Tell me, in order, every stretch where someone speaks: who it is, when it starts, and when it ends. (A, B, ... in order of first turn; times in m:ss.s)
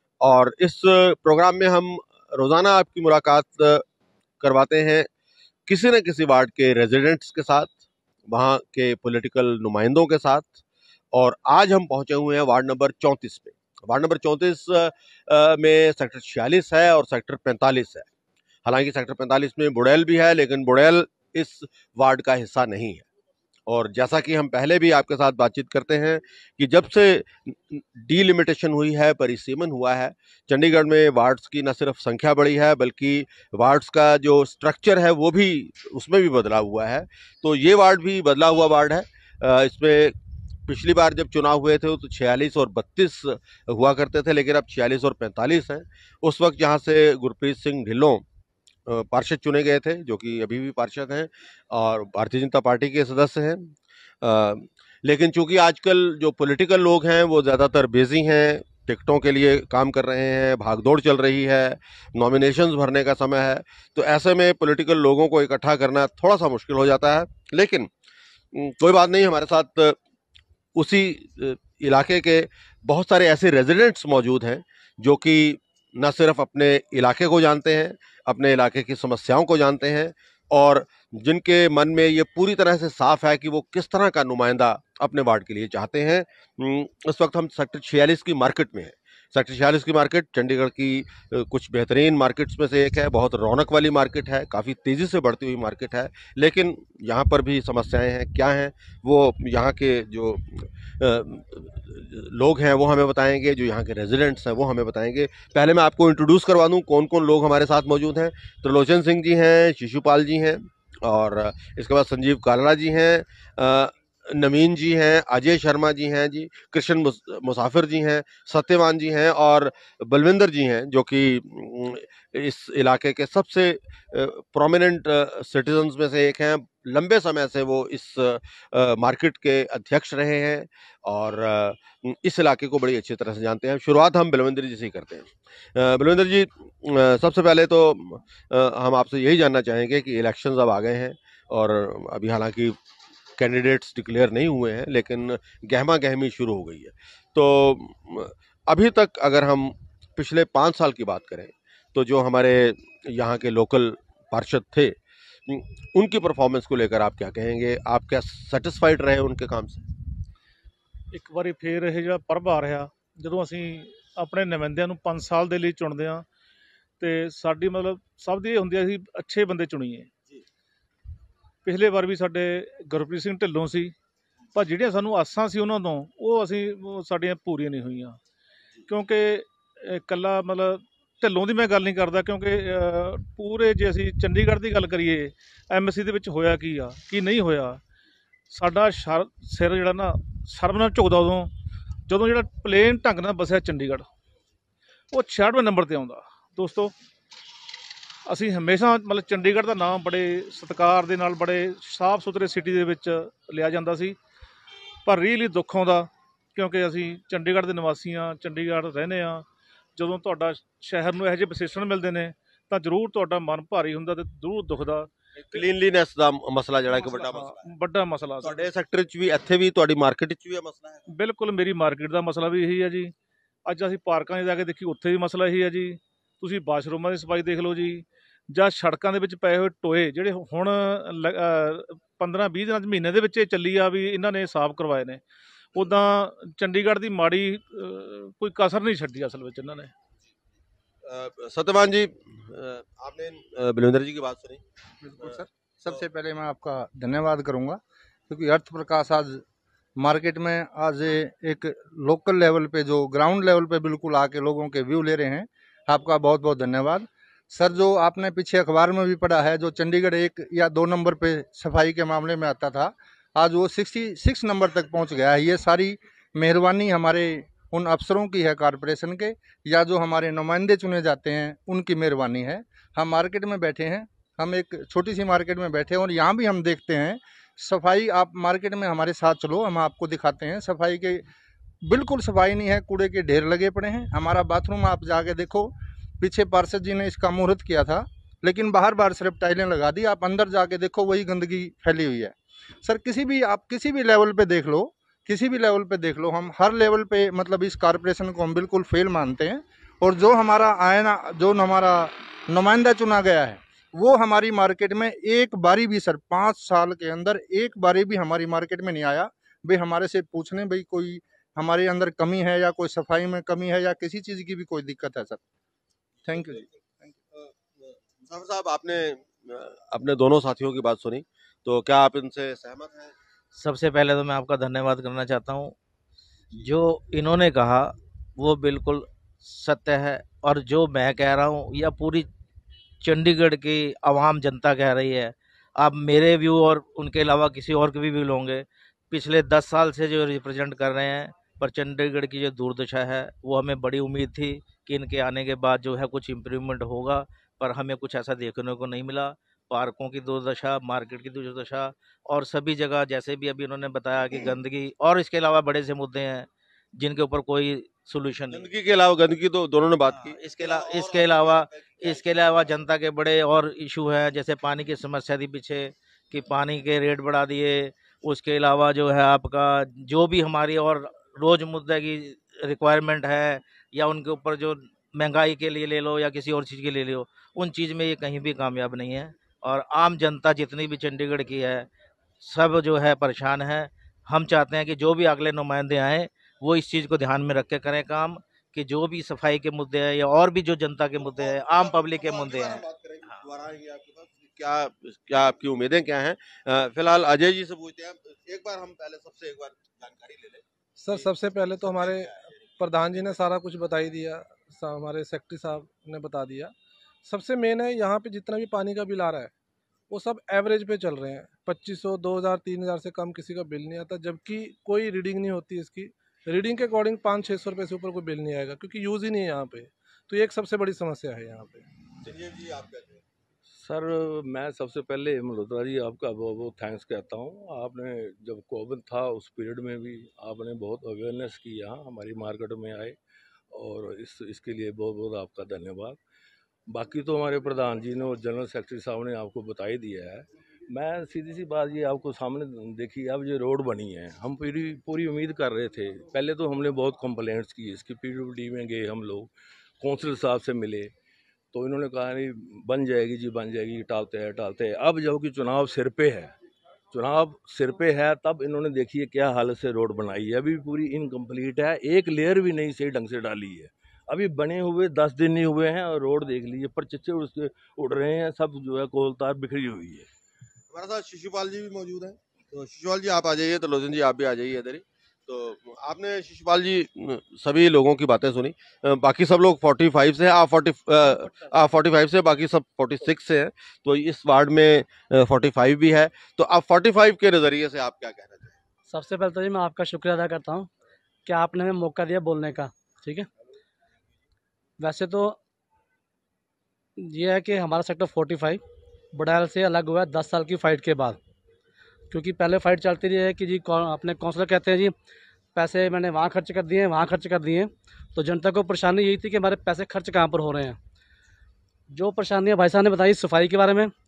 0:00.2-0:03.8 A
0:04.4-0:05.1 A
0:05.7-0:07.8 A
0:08.3-0:10.6 A
0:11.1-0:18.1 A
0:18.6-0:23.0 A
0:23.7-0:40.2 A
0:40.7-0:48.2 A
0:48.9-1:07.9 A
1:08.5-1:10.0 A
1:10.7-2:22.8 A
2:23.4-2:39.9 A
2:41.1-2:46.2 B
2:47.0-2:50.1 B
2:51.6-2:53.9 B
2:54.5-2:58.2 B
2:58.9-3:07.8 B
3:08.5-3:11.5 B
3:12.1-3:14.0 B
3:15.1-3:16.9 B
3:18.2-3:24.2 B
3:25.0-3:29.4 B
3:30.0-3:35.6 B
3:35.4-3:37.7 A
3:36.9-3:38.6 B
3:38.4-3:41.0 A
3:41.1-3:43.1 B
3:43.6-3:55.2 B
3:55.7-3:59.9 B
4:01.0-4:04.6 A
4:05.0-4:09.4 C
4:05.2-4:06.0 A
4:10.0-4:41.3 C
4:41.8-5:15.4 C
5:16.2-5:16.7 A
5:16.3-5:16.6 C
5:17.3-5:23.1 A
5:23.5-5:25.8 D
5:26.6-5:32.3 D
5:33.0-5:58.7 D
5:58.5-6:02.7 A
6:00.1-6:21.9 D
6:22.4-6:32.8 D
6:31.1-6:43.2 A
6:41.0-6:46.7 E
6:47.2-6:49.5 E
6:50.1-7:01.9 E
7:02.2-7:03.2 A
7:03.8-7:13.2 F
7:13.7-7:16.2 F
7:16.9-7:31.1 F
7:31.7-7:36.5 F
7:37.1-7:50.3 F
7:50.9-8:08.8 A
8:09.1-8:10.9 G
8:11.4-8:13.5 G
8:15.0-8:15.6 G
8:17.2-8:18.8 G
8:19.3-8:21.4 G
8:22.3-8:25.1 G
8:25.8-8:31.0 G
8:32.1-8:34.1 G